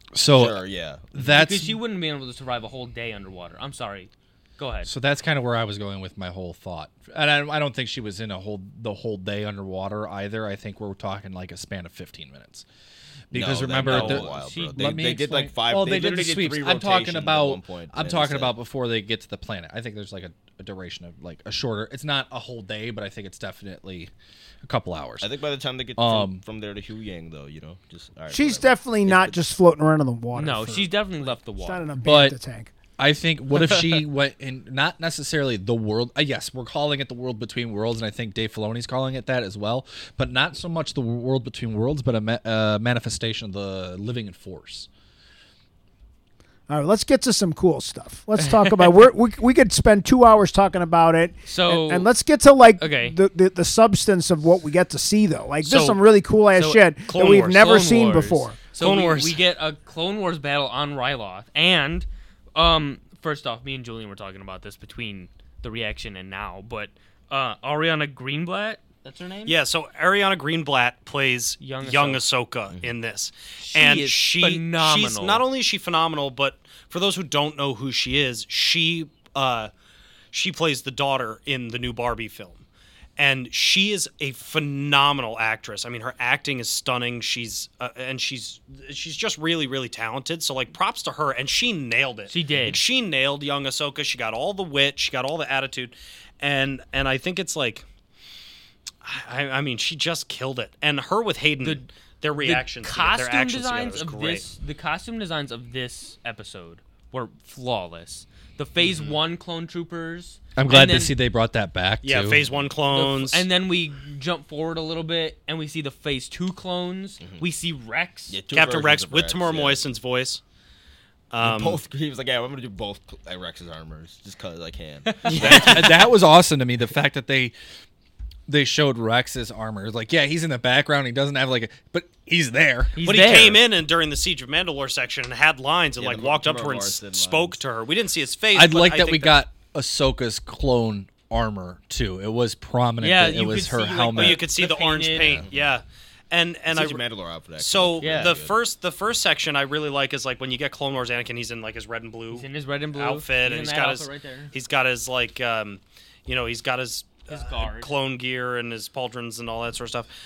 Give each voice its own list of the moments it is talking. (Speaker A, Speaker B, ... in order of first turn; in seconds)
Speaker A: 0.1-1.8, 4.8-12.7, 13.3-24.1, 24.6-25.3, 26.0-26.4, 32.0-32.4, 33.0-44.9, 110.6-112.4, 125.4-127.5, 128.5-133.0, 138.6-144.4
Speaker B: 0.3-1.2, 13.3-18.5, 25.2-29.4, 108.8-109.2, 117.2-117.5, 118.3-119.8, 121.4-126.0, 136.0-137.6, 145.2-145.7, 146.7-148.6
Speaker C: 1.3-4.9, 13.8-14.8, 30.3-31.9, 33.6-34.0, 51.5-52.1, 52.8-53.2, 56.6-69.6, 71.6-72.2, 73.6-75.4, 92.3-92.8, 101.6-101.9, 102.4-111.2, 112.9-118.4, 125.0-126.0, 133.0-133.6, 143.0-145.4, 148.0-148.4, 152.3-154.5, 157.3-157.9
Speaker D: 28.3-30.9, 31.6-32.7, 46.7-58.6
Speaker E: 55.6-56.0, 57.0-57.7, 58.8-59.4, 69.5-79.7, 80.3-82.7, 83.2-97.8, 99.0-104.5, 112.0-113.5, 118.5-120.4, 121.3-121.8, 133.0-139.4, 144.1-147.0, 147.6-160.1